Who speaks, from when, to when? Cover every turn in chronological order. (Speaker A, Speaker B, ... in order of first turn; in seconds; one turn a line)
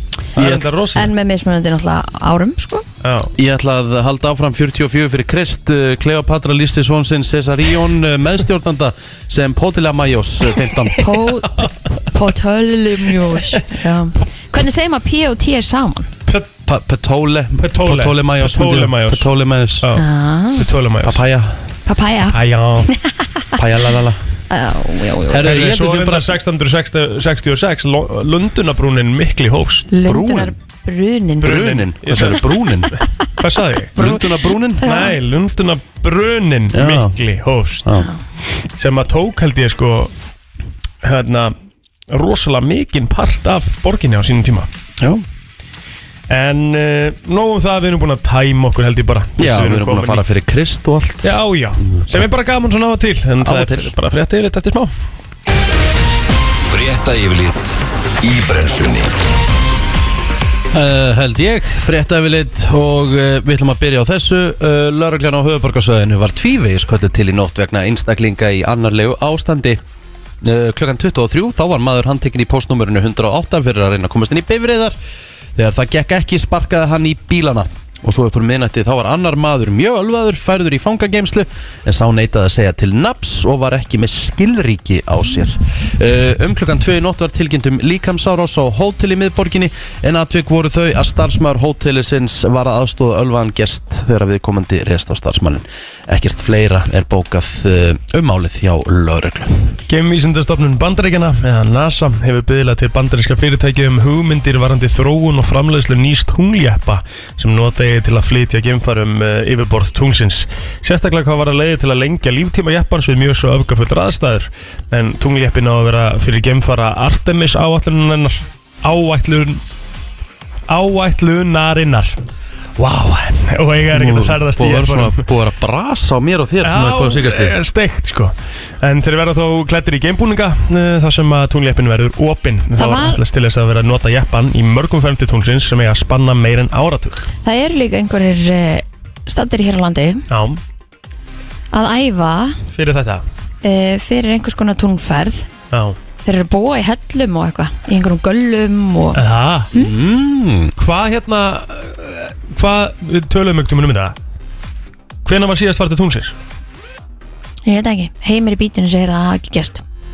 Speaker A: 0.3-0.7
Speaker B: 0.4-1.1
Speaker C: 0.9-2.9
Speaker B: 3.0-3.3
Speaker A: 3.4-11.0
Speaker B: 11.0-11.7
Speaker C: 11.0-16.1
Speaker B: 13.3-13.6
Speaker A: 16.7-19.9
Speaker B: 17.6-19.3
Speaker B: 19.8-21.2
Speaker C: 20.0-20.7
Speaker A: 21.0-21.6
Speaker C: 21.9-23.0
Speaker B: 22.3-22.9
Speaker A: 23.6-24.2
Speaker C: 24.5-25.4
Speaker A: 25.3-26.4
Speaker B: 25.4-29.9
Speaker C: 29.9-31.5
Speaker A: 30.1-30.5
Speaker A: 31.4-33.0
Speaker B: 31.4-34.0
Speaker C: 34.0-34.3
Speaker A: 34.0-34.9
Speaker C: 34.8-35.1
Speaker B: 34.8-37.9
Speaker A: 36.7-37.1
Speaker B: 38.8-40.1
Speaker B: 41.0-41.5
Speaker B: 42.1-44.7
Speaker A: 45.0-45.2
Speaker B: 46.3-50.2
Speaker A: 49.4-51.4
Speaker B: 51.2-54.9
Speaker A: 51.9-52.3
Speaker A: 53.4-53.9
Speaker D: 56.7-59.1
Speaker A: 60.7-69.8
Speaker A: 70.4-75.0
Speaker A: 75.5-99.7
Speaker B: 99.9-119.6
Speaker B: 120.7-122.2
Speaker B: 122.8-125.2
Speaker A: 123.9-127.6
Speaker B: 126.6-137.3
Speaker C: 132.8-133.2
Speaker C: 137.4-140.2
Speaker B: 140.3-140.6
Speaker C: 141.7-142.6
Speaker B: 142.8-143.2
Speaker C: 143.6-145.5
Speaker B: 145.7-146.0
Speaker C: 146.2-149.2
Speaker B: 149.2-149.7
Speaker A: 149.7-150.7
Speaker B: 150.8-154.2
Speaker B: 155.2-156.4
Speaker C: 157.7-159.8